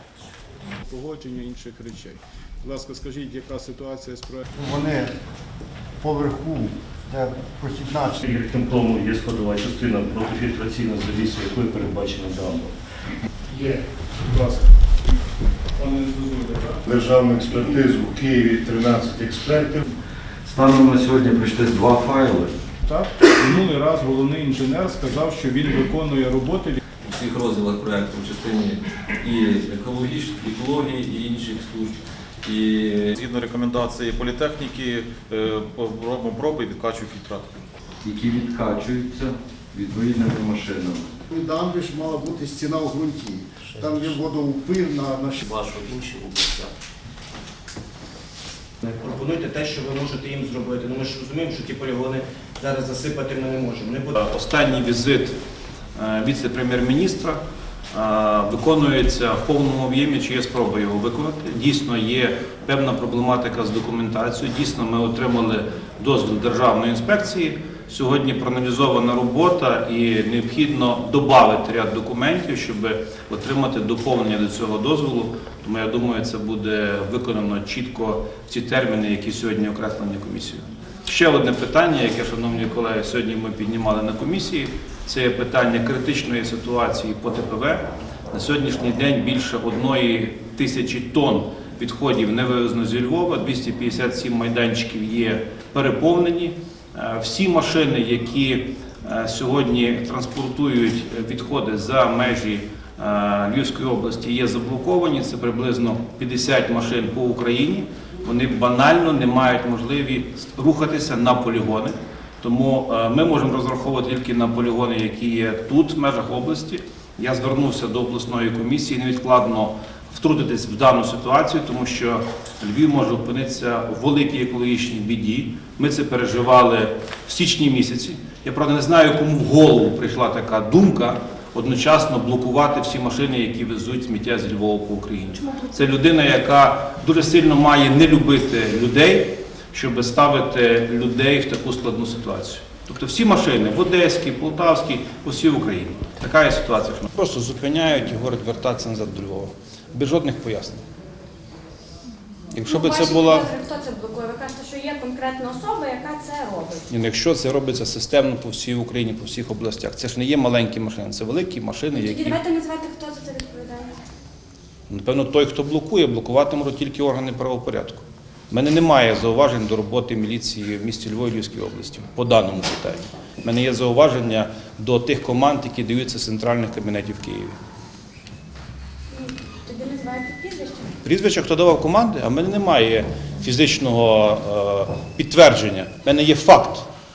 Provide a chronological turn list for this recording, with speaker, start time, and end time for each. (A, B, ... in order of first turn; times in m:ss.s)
0:00.9-0:04.4 A
0:04.6-0:05.1 B
0:06.0-0:08.2 B
0:08.2-0:12.7 C
0:13.5-0:14.7 A
0:15.8-0:16.8 A
0:16.9-0:19.8 B
0:20.4-0:22.5 D
0:22.8-0:26.8 A
0:27.1-0:31.9 E
0:32.4-0:33.1 E
0:33.1-0:37.6 F
0:38.0-0:41.2 D
0:41.3-0:45.9 B
0:45.5-0:46.7 G
0:48.8-0:54.2 G
0:54.2-0:55.4 H
0:56.0-0:57.4 H
0:57.9-2:30.8 H
2:32.5-2:33.5 H
2:32.6-2:36.9 I
2:36.9-2:42.4 H
2:41.9-2:44.0 I
2:44.9-2:57.6 H
2:59.1-3:00.9 I
3:01.0-3:06.8 H